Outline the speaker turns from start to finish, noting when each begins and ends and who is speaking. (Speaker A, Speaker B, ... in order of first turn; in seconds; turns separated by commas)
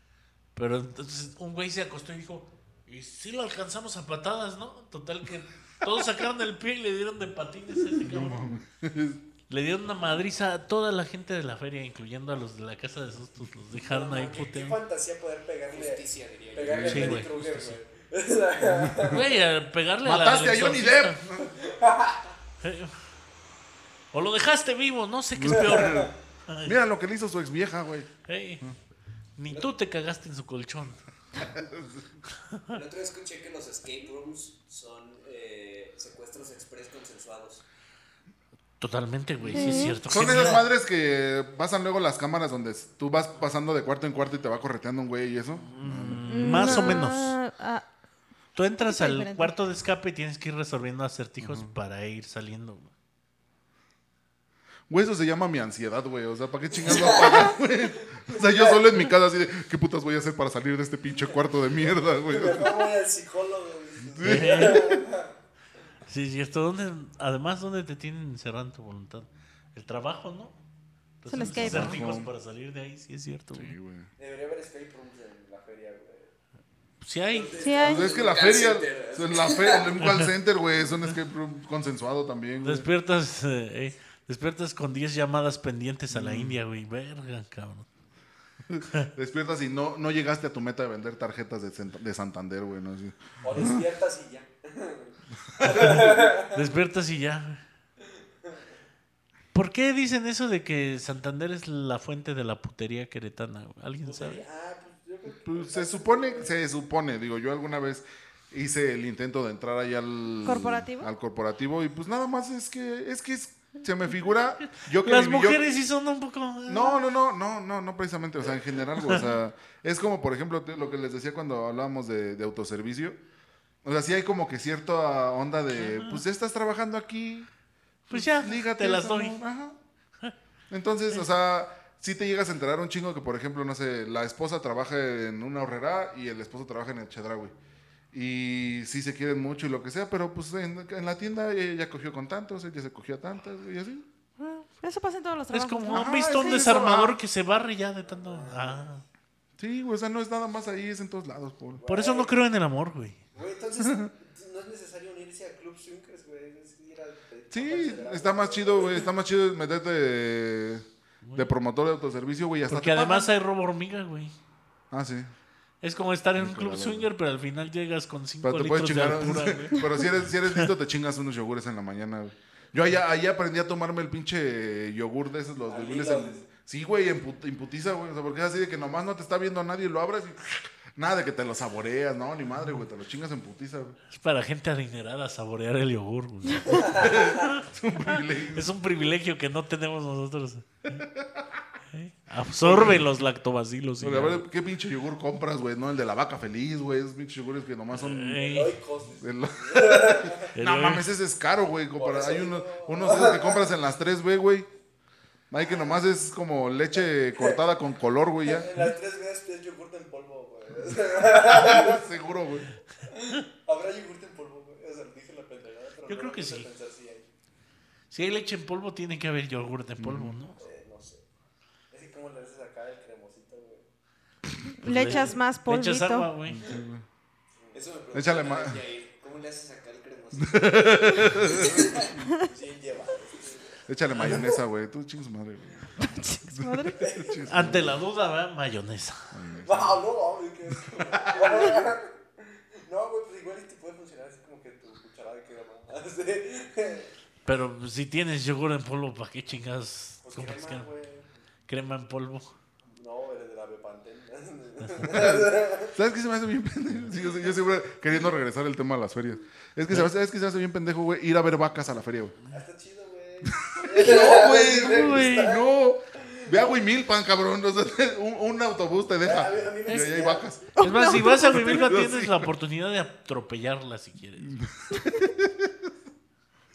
Speaker A: 0.6-8.6, Speaker B: 8.0-9.2, Speaker A: 9.5-14.8, Speaker C: 13.8-19.3, Speaker D: 15.7-16.8, Speaker B: 16.6-17.2, Speaker A: 16.8-17.8, Speaker B: 18.7-19.2, Speaker A: 19.1-21.2, Speaker B: 20.1-21.5, Speaker C: 21.4-22.4, Speaker A: 22.6-22.9, Speaker A: 24.1-26.8, Speaker B: 25.4-26.1, Speaker C: 25.5-26.1, Speaker B: 26.6-28.8, Speaker A: 28.2-28.6, Speaker A: 29.4-31.0, Speaker B: 31.4-32.1, Speaker A: 32.5-32.8, Speaker D: 32.7-37.6, Speaker A: 38.8-40.7, Speaker E: 39.5-40.0, Speaker B: 39.5-47.1, Speaker A: 45.6-47.4, Speaker E: 46.3-47.9, Speaker A: 48.5-52.9, Speaker E: 48.9-49.5, Speaker B: 51.4-51.7, Speaker B: 54.9-62.9, Speaker C: 56.8-59.1, Speaker C: 62.3-65.3, Speaker B: 64.0-65.1, Speaker A: 64.2-64.8, Speaker A: 66.1-70.6, Speaker A: 71.2-73.8, Speaker E: 71.3-72.1, Speaker B: 71.5-72.3, Speaker B: 73.5-74.1, Speaker C: 74.2-76.3, Speaker A: 77.0-77.6, Speaker C: 77.3-80.0, Speaker E: 77.6-78.1, Speaker B: 77.8-82.9, Speaker D: 77.8-79.9, Speaker A: 82.6-87.9, Speaker B: 86.1-86.6, Speaker B: 88.7-93.8, Speaker C: 93.4-96.7, Speaker B: 95.6-96.0, Speaker A: 95.8-97.6, Speaker C: 98.0-98.7, Speaker A: 99.5-104.5, Speaker C: 104.0-106.8, Speaker B: 105.3-115.6, Speaker E: 110.4-111.1, Speaker A: 114.8-117.0, Speaker B: 116.7-123.2, Speaker B: 123.8-127.5, Speaker A: 125.8-126.2, Speaker A: 128.1-129.4, Speaker B: 128.1-129.8, Speaker B: 130.7-137.5, Speaker B: 138.1-144.1, Speaker E: 144.4-146.8, Speaker A: 145.5-149.0, Speaker B: 145.9-147.2, Speaker C: 148.1-148.9, Speaker B: 149.6-151.8, Speaker C: 151.8-152.4, Speaker A: 151.9-153.2, Speaker C: 153.3-159.1, Speaker B: 153.8-154.1, Speaker B: 157.5-163.3, Speaker A: 162.7-164.4, Speaker B: 164.9-165.3, Speaker A: 165.8-170.7, Speaker B: 166.4-167.1, Speaker B: 168.4-184.0, Speaker C: 175.7-176.5, Speaker A: 184.1-187.6, Speaker C: 186.7-187.6, Speaker B: 186.8-188.7, Speaker A: 188.2-190.9, Speaker B: 190.8-191.5, Speaker A: 191.9-194.5, Speaker B: 192.5-193.1, Speaker B: 194.0-198.4, Speaker A: 197.9-198.8, Speaker C: 198.3-200.5, Speaker B: 199.2-204.7, Speaker A: 200.6-201.1, Speaker C: 201.9-203.7, Speaker B: 205.5-208.7, Speaker C: 207.4-207.6, Speaker C: 208.4-212.1, Speaker B: 211.4-212.7, Speaker C: 213.1-217.3, Speaker A: 216.1-216.7, Speaker A: 218.1-220.6, Speaker B: 220.0-220.4, Speaker C: 220.6-221.2, Speaker C: 221.9-223.9, Speaker E: 224.8-226.3, Speaker B: 224.8-225.3, Speaker A: 224.8-226.6, Speaker C: 225.0-225.4, Speaker B: 226.4-227.1, Speaker C: 227.6-228.8, Speaker D: 227.7-232.1, Speaker B: 228.1-228.8, Speaker B: 230.4-232.0, Speaker C: 231.4-234.6, Speaker B: 233.9-238.0, Speaker E: 236.0-237.1, Speaker C: 236.9-237.7, Speaker A: 237.5-239.4, Speaker B: 239.3-240.1, Speaker C: 239.6-247.1, Speaker B: 241.0-241.7, Speaker A: 247.4-250.9, Speaker C: 250.2-251.3, Speaker A: 251.7-252.5, Speaker C: 252.9-256.0, Speaker B: 255.1-262.4, Speaker C: 262.5-265.7, Speaker B: 263.6-272.5, Speaker A: 264.9-265.6, Speaker C: 266.3-266.6, Speaker C: 269.2-270.4, Speaker A: 269.9-270.1, Speaker E: 270.8-271.9, Speaker A: 270.8-274.6, Speaker B: 274.4-275.9